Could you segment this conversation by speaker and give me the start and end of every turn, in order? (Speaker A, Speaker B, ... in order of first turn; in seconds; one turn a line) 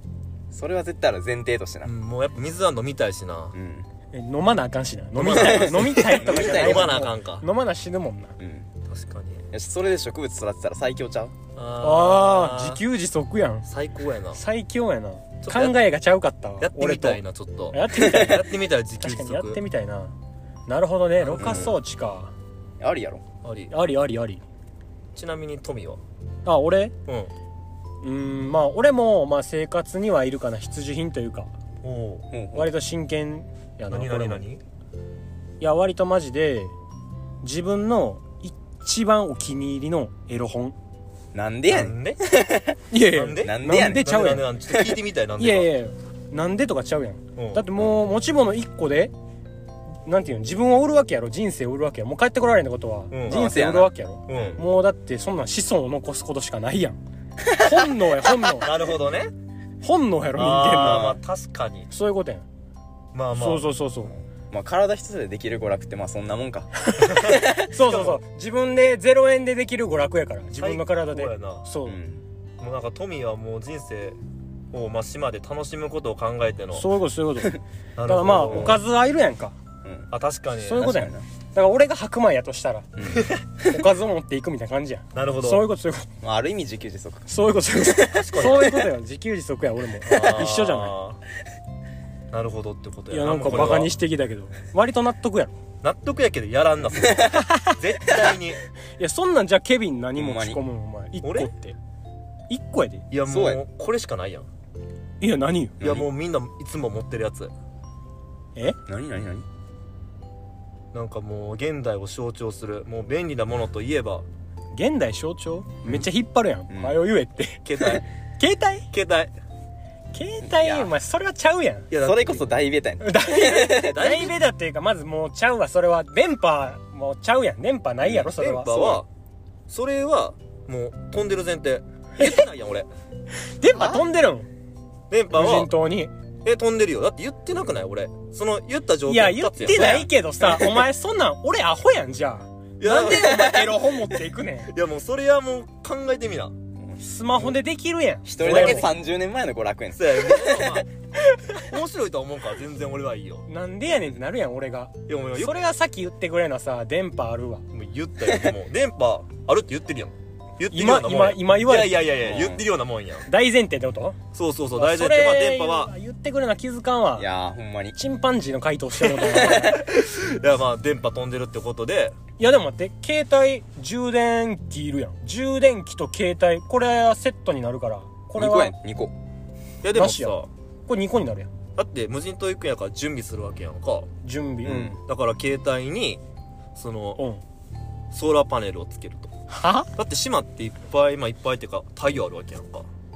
Speaker A: 0.5-1.9
Speaker B: 1.8-3.5
Speaker A: 3.5-3.9
Speaker C: 4.1-8.4
Speaker B: 5.2-7.4
Speaker A: 5.2-6.9
Speaker A: 8.4-8.7
Speaker B: 8.9-9.4
Speaker A: 9.5-11.3
Speaker B: 11.6-12.8
Speaker C: 11.8-13.7
Speaker B: 13.6-14.4
Speaker C: 14.3-18.5
Speaker B: 15.4-15.8
Speaker B: 16.6-19.6
Speaker A: 18.0-18.3
Speaker C: 19.0-20.1
Speaker C: 20.7-22.3
Speaker B: 21.2-21.8
Speaker A: 21.4-21.8
Speaker A: 22.8-23.2
Speaker B: 23.4-23.7
Speaker C: 23.7-24.4
Speaker B: 25.1-26.0
Speaker C: 26.4-26.9
Speaker C: 28.0-31.5
Speaker B: 31.8-32.3
Speaker A: 32.3-32.7
Speaker C: 32.5-34.4
Speaker B: 33.9-34.6
Speaker C: 35.6-36.7
Speaker C: 37.4-40.8
Speaker A: 41.3-42.8
Speaker B: 41.7-42.2
Speaker C: 42.9-44.5
Speaker B: 43.1-45.7
Speaker A: 43.4-44.1
Speaker A: 44.7-45.0
Speaker C: 45.4-49.1
Speaker B: 47.4-47.6
Speaker C: 50.0-58.7
Speaker B: 53.1-53.5
Speaker A: 53.3-54.6
Speaker B: 54.3-54.6
Speaker A: 57.5-58.3
Speaker B: 58.6-59.3
Speaker C: 59.8-61.2
Speaker B: 60.3-61.9
Speaker A: 60.8-61.2
Speaker C: 61.9-62.5
Speaker B: 63.1-63.6
Speaker C: 63.3-64.1
Speaker A: 64.5-66.7
Speaker C: 66.8-72.0
Speaker B: 67.1-68.2
Speaker A: 67.2-67.6
Speaker B: 70.5-71.6
Speaker A: 71.8-72.2
Speaker B: 72.6-74.2
Speaker B: 74.7-76.9
Speaker C: 76.7-79.5
Speaker B: 78.0-78.8
Speaker A: 78.5-78.8
Speaker A: 79.8-80.1
Speaker B: 80.1-80.9
Speaker C: 80.6-82.9
Speaker A: 80.8-81.2
Speaker A: 83.0-83.8
Speaker C: 83.7-86.1
Speaker B: 85.1-85.7
Speaker A: 86.2-87.3
Speaker C: 87.3-91.0
Speaker B: 88.0-88.8
Speaker B: 90.0-91.2
Speaker B: 92.3-93.9
Speaker C: 93.1-95.5
Speaker B: 95.8-98.6
Speaker A: 97.0-97.4
Speaker C: 97.4-97.7
Speaker C: 99.0-101.8
Speaker A: 100.2-100.6
Speaker B: 101.2-101.5
Speaker C: 102.5-103.0
Speaker B: 103.1-104.5
Speaker A: 103.3-103.6
Speaker C: 105.2-105.8
Speaker A: 105.8-106.1
Speaker B: 105.8-107.5
Speaker A: 108.8-109.4
Speaker B: 110.9-114.2
Speaker C: 114.7-118.9
Speaker A: 116.7-117.0
Speaker B: 117.6-118.0
Speaker B: 118.9-119.3
Speaker C: 120.1-121.9
Speaker A: 120.4-120.9
Speaker B: 121.9-122.5
Speaker A: 122.0-124.0
Speaker C: 123.0-128.8
Speaker B: 123.8-124.3
Speaker A: 128.0-129.0
Speaker B: 128.4-129.1
Speaker B: 129.7-132.9
Speaker C: 133.6-134.5
Speaker A: 133.7-134.0
Speaker B: 135.1-135.7
Speaker C: 135.3-136.1
Speaker B: 136.4-140.8
Speaker C: 139.1-144.7
Speaker B: 142.8-143.8
Speaker B: 144.7-146.5
Speaker C: 147.0-148.9
Speaker A: 148.2-150.8
Speaker B: 148.4-148.9
Speaker B: 149.9-150.9
Speaker B: 151.6-153.4
Speaker C: 153.5-157.6
Speaker B: 155.1-155.5
Speaker B: 157.7-163.3
Speaker A: 158.2-158.5
Speaker C: 160.7-162.1
Speaker A: 162.2-162.7
Speaker C: 163.2-164.2
Speaker B: 164.3-165.9
Speaker C: 164.8-167.3
Speaker A: 167.2-168.0
Speaker C: 167.9-169.7
Speaker A: 169.3-169.8
Speaker B: 169.4-172.1
Speaker C: 172.4-178.7
Speaker A: 178.3-179.1
Speaker B: 179.8-180.5
Speaker C: 179.9-180.3
Speaker C: 180.9-181.5
Speaker B: 181.8-184.1
Speaker C: 184.2-185.0
Speaker A: 184.6-185.0
Speaker B: 185.0-186.2
Speaker B: 186.8-187.2
Speaker C: 187.2-187.4
Speaker B: 188.1-189.3
Speaker C: 189.5-189.9
Speaker B: 189.9-192.8